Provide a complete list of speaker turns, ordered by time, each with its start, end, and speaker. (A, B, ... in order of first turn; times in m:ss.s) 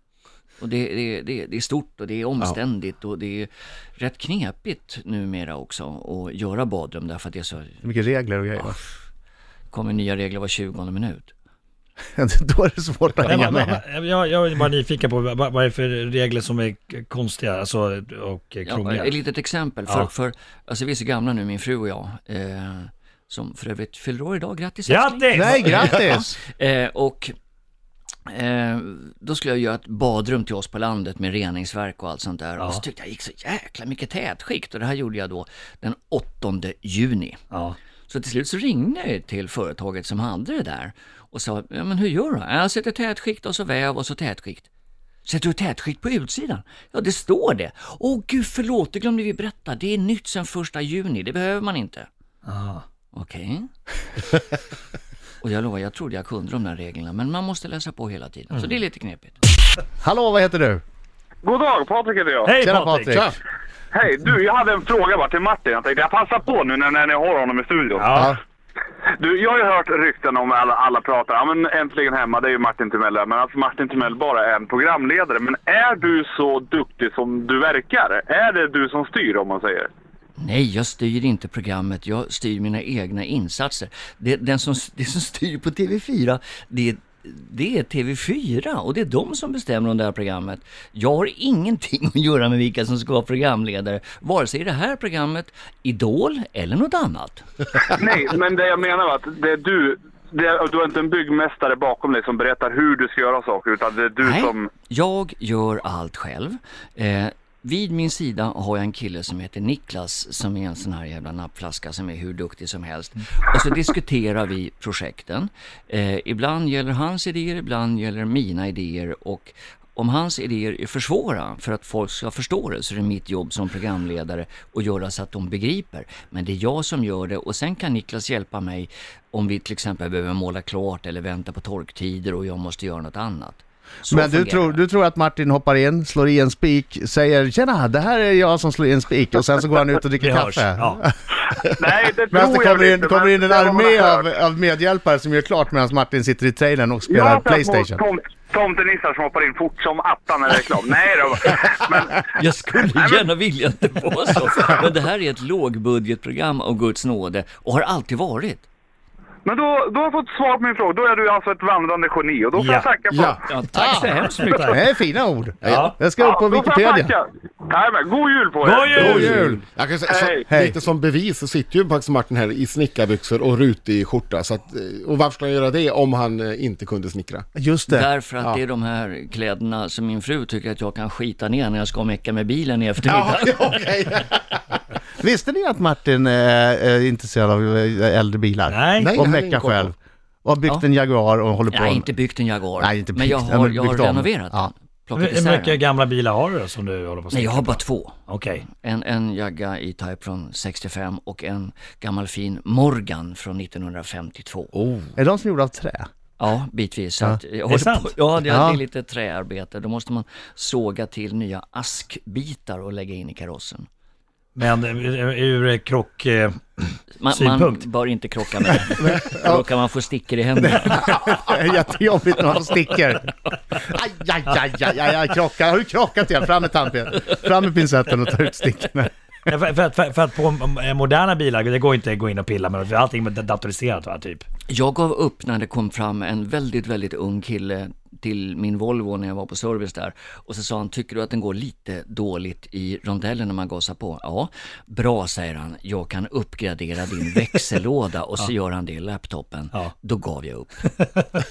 0:00.6-0:07.8 A
0:07.8-0:08.8 B
0:09.7-0:11.3 A
0:12.2-0:13.8 B
0:13.2-0:19.1 C
0:18.6-0:27.3 A
0:24.9-0:26.1 C
0:25.3-0:26.4 B
0:28.3-0:37.4 A
0:37.5-0:37.8 C
0:38.1-0:44.7 A
0:45.2-0:52.1 A
0:52.4-0:52.8 C
0:53.1-0:53.7 A
0:55.4-0:59.4 A
1:00.0-1:00.8 B
1:01.4-1:02.5 D
1:02.4-1:03.2 C
1:02.6-1:03.3 B
1:03.9-1:08.2 D
1:08.0-1:08.3 C
1:09.2-1:19.9 D
1:20.4-1:37.4 A
1:37.9-1:44.7 D
1:44.2-2:14.8 A
2:14.1-2:21.2 B
2:20.2-2:21.0 C
2:21.8-2:24.2 D
2:22.3-2:28.0 B
2:27.1-2:32.3 D
2:32.2-2:38.7 A
2:33.0-2:33.2 D
2:39.4-2:43.4 D
2:42.6-2:42.9 C
2:43.1-2:43.4 E
2:43.5-2:44.7 A
2:43.7-2:44.1 B
2:44.4-2:44.8 C
2:44.6-2:47.1 B
2:45.6-2:46.0 E
2:45.6-2:46.0 C
2:46.2-2:49.3 D
2:48.6-2:49.4 C
2:48.9-2:57.4 E
2:49.0-2:49.6 B
2:50.1-2:50.5 D
2:50.5-2:50.7 B
2:57.6-2:58.1 B
2:57.9-3:03.8 A
3:03.0-3:04.8 E
3:05.2-3:12.1 B
3:08.7-3:09.1 C
3:09.0-3:09.9 E
3:11.7-3:15.8 A
3:12.8-3:14.7 B
3:15.1-3:18.6 C
3:17.3-3:24.7 A
3:24.7-3:25.1 E
3:25.2-3:26.1 B
3:26.4-3:33.9 A
3:27.7-3:28.2 C
3:28.4-3:28.8 B
3:34.5-3:37.8 C
3:37.2-3:41.2 A
3:39.0-3:39.6 B
3:40.6-3:49.1 B
3:49.5-3:54.4 C
3:54.7-4:10.8 A